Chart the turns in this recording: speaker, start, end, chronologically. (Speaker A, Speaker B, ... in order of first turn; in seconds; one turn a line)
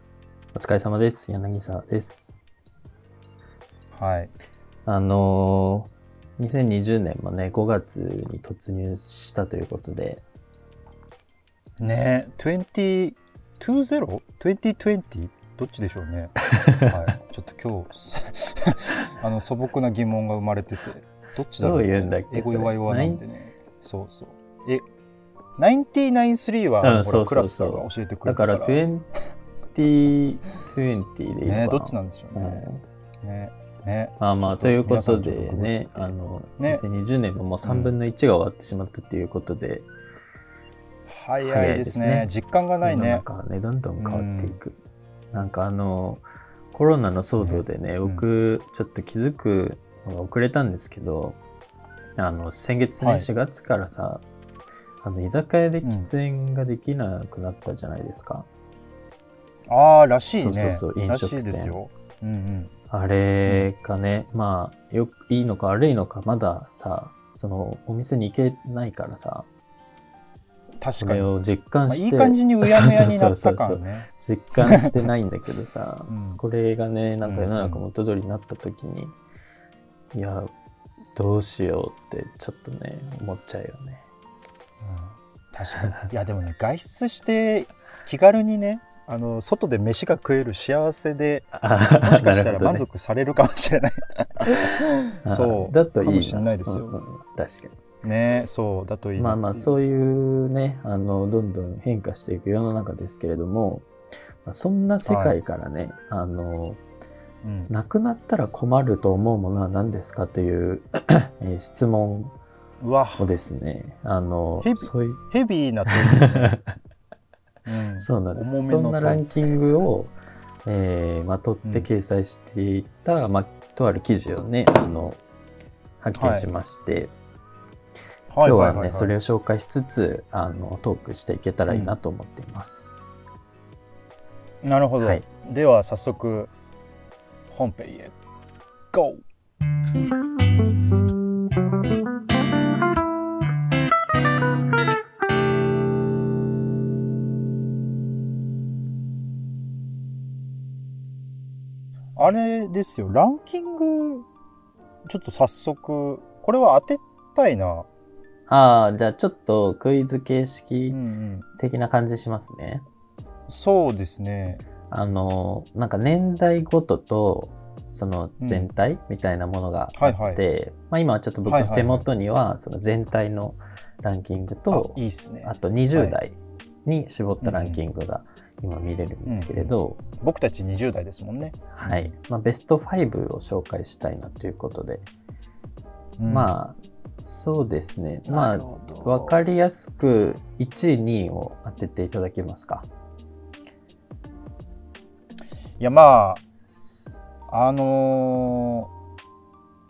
Speaker A: 0.5-2.4
Speaker B: 3.9-4.3
Speaker A: 4.9-10.2
Speaker B: 11.8-24.8
Speaker A: 16.6-16.9
Speaker A: 21.6-23.2
Speaker B: 25.6-28.8
Speaker A: 26.8-29.1
Speaker A: 29.7-32.8
Speaker B: 31.5-32.7
Speaker B: 33.2-36.8
Speaker A: 34.2-39.9
Speaker B: 37.6-37.9
Speaker B: 41.1-43.2
Speaker A: 41.5-42.3
Speaker A: 42.8-44.8
Speaker B: 44.0-44.6
Speaker A: 45.3-51.4
Speaker B: 47.4-48.2
Speaker A: 52.2-54.2
Speaker B: 53.0-53.3
Speaker A: 55.0-58.5
Speaker B: 55.8-56.1
Speaker B: 59.7-62.7
Speaker A: 60.4-61.8
Speaker A: 62.9-69.5
Speaker B: 70.8-71.3
Speaker A: 71.0-79.2
Speaker B: 71.9-74.1
Speaker B: 74.6-74.9
Speaker B: 76.1-76.4
Speaker B: 77.2-77.8
Speaker A: 80.1-80.5
Speaker A: 81.2-84.0
Speaker B: 84.8-97.0
Speaker A: 91.5-92.8
Speaker A: 95.2-97.8
Speaker B: 98.0-99.7
Speaker A: 99.2-103.9
Speaker A: 104.5-106.8
Speaker B: 105.0-105.4
Speaker B: 107.4-107.7
Speaker A: 107.7-112.3
Speaker B: 112.8-113.3
Speaker A: 113.2-115.2
Speaker B: 114.6-116.5
Speaker A: 115.9-116.7
Speaker B: 117.7-119.3
Speaker A: 118.0-120.1
Speaker A: 120.7-125.2
Speaker A: 126.0-127.1
Speaker B: 126.2-126.5
Speaker B: 128.3-129.1
Speaker A: 128.4-133.0
Speaker B: 131.7-131.9
Speaker B: 134.6-136.5
Speaker B: 137.5-138.2
Speaker B: 138.9-139.2
Speaker B: 152.2-154.2
Speaker B: 155.1-157.9
Speaker A: 158.5-161.0
Speaker B: 160.9-161.5
Speaker A: 161.6-162.9
Speaker B: 163.5-164.6
Speaker A: 164.9-180.0
Speaker B: 168.4-168.7
Speaker B: 170.0-170.4
Speaker B: 171.4-172.1
Speaker B: 174.7-176.2
Speaker B: 177.4-177.8
Speaker B: 179.3-182.2
Speaker A: 181.7-185.1
Speaker B: 186.2-186.5
Speaker A: 186.3-192.9
Speaker B: 188.3-189.4
Speaker B: 195.8-196.4
Speaker A: 196.7-197.2
Speaker B: 197.5-198.9